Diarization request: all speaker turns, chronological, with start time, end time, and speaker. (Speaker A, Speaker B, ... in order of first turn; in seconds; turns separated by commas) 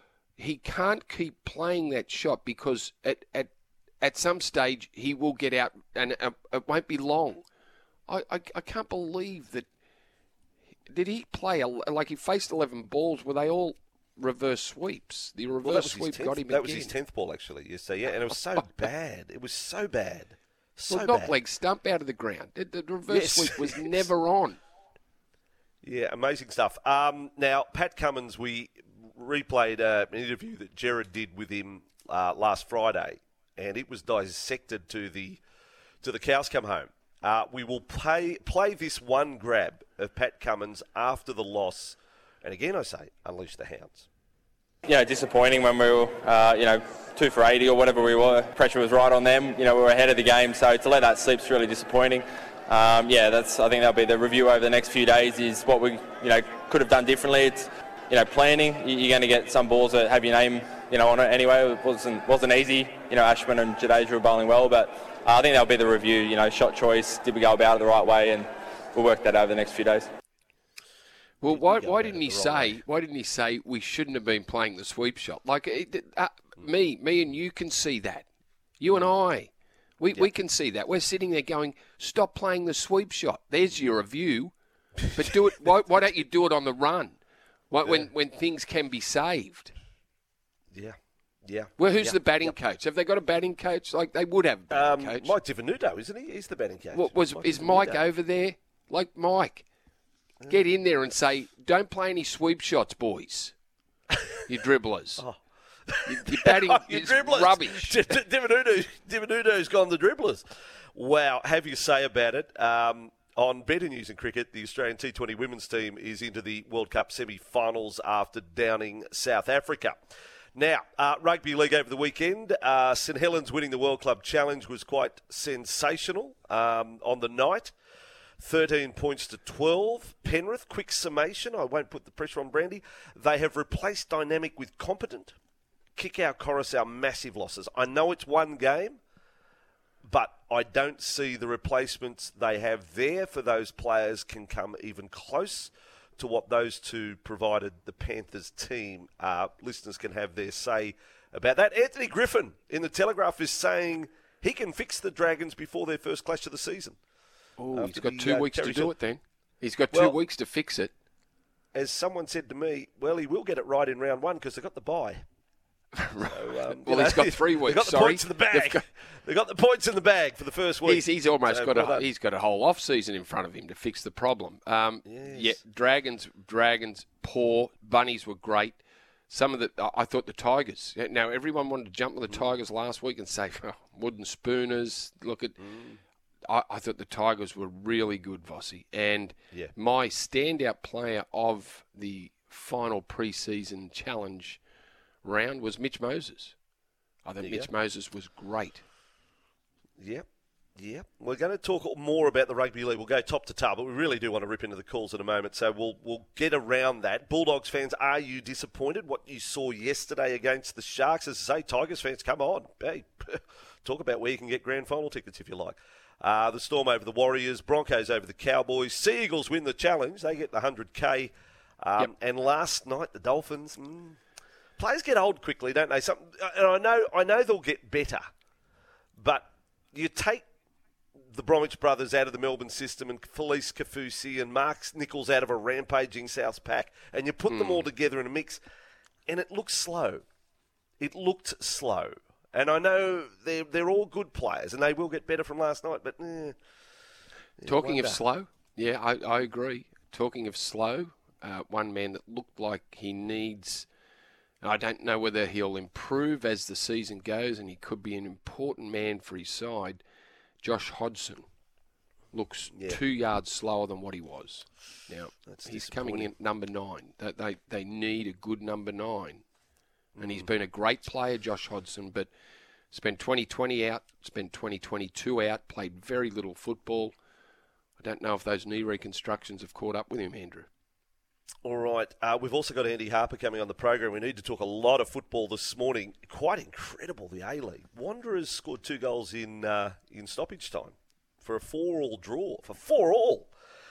Speaker A: 0.4-7.5, Speaker A: 8.1-9.7, Speaker A: 10.9-16.9, Speaker B: 15.6-21.3, Speaker A: 18.6-18.9, Speaker A: 20.9-24.6, Speaker B: 23.1-24.1, Speaker B: 25.8-35.4, Speaker B: 36.0-44.1, Speaker C: 44.9-70.1, Speaker A: 71.4-78.3, Speaker B: 71.5-72.8, Speaker A: 78.8-84.5, Speaker A: 85.1-87.2, Speaker A: 87.7-89.7, Speaker B: 87.8-88.1, Speaker B: 90.7-92.6, Speaker A: 91.8-95.3, Speaker B: 94.7-98.0, Speaker A: 96.9-99.7, Speaker A: 100.5-103.5, Speaker A: 104.5-105.2, Speaker B: 105.9-110.4, Speaker A: 106.1-108.2, Speaker B: 111.0-120.0, Speaker B: 120.5-127.7, Speaker B: 128.4-135.3, Speaker B: 136.0-139.0, Speaker B: 140.1-157.0, Speaker A: 157.6-160.9, Speaker B: 157.7-158.9, Speaker B: 159.9-160.2, Speaker B: 161.8-165.2, Speaker A: 166.0-168.8, Speaker B: 166.3-172.1, Speaker A: 170.8-185.6, Speaker B: 175.1-175.6, Speaker B: 185.6-186.0, Speaker A: 186.5-194.6, Speaker A: 195.2-196.6, Speaker A: 197.2-198.8, Speaker B: 197.4-197.7, Speaker B: 200.0-200.2, Speaker B: 200.8-224.2, Speaker B: 224.8-228.2, Speaker B: 229.2-230.5, Speaker B: 231.3-238.6, Speaker A: 237.5-237.9, Speaker B: 239.3-240.2, Speaker B: 241.0-246.6, Speaker B: 247.6-248.2, Speaker A: 247.7-253.9, Speaker A: 254.6-260.0, Speaker A: 260.6-261.5, Speaker A: 262.3-269.4, Speaker B: 262.7-263.0, Speaker B: 265.4-266.3, Speaker B: 270.1-270.5, Speaker A: 270.2-272.3, Speaker A: 272.9-277.1, Speaker A: 278.0-280.7, Speaker B: 281.6-293.5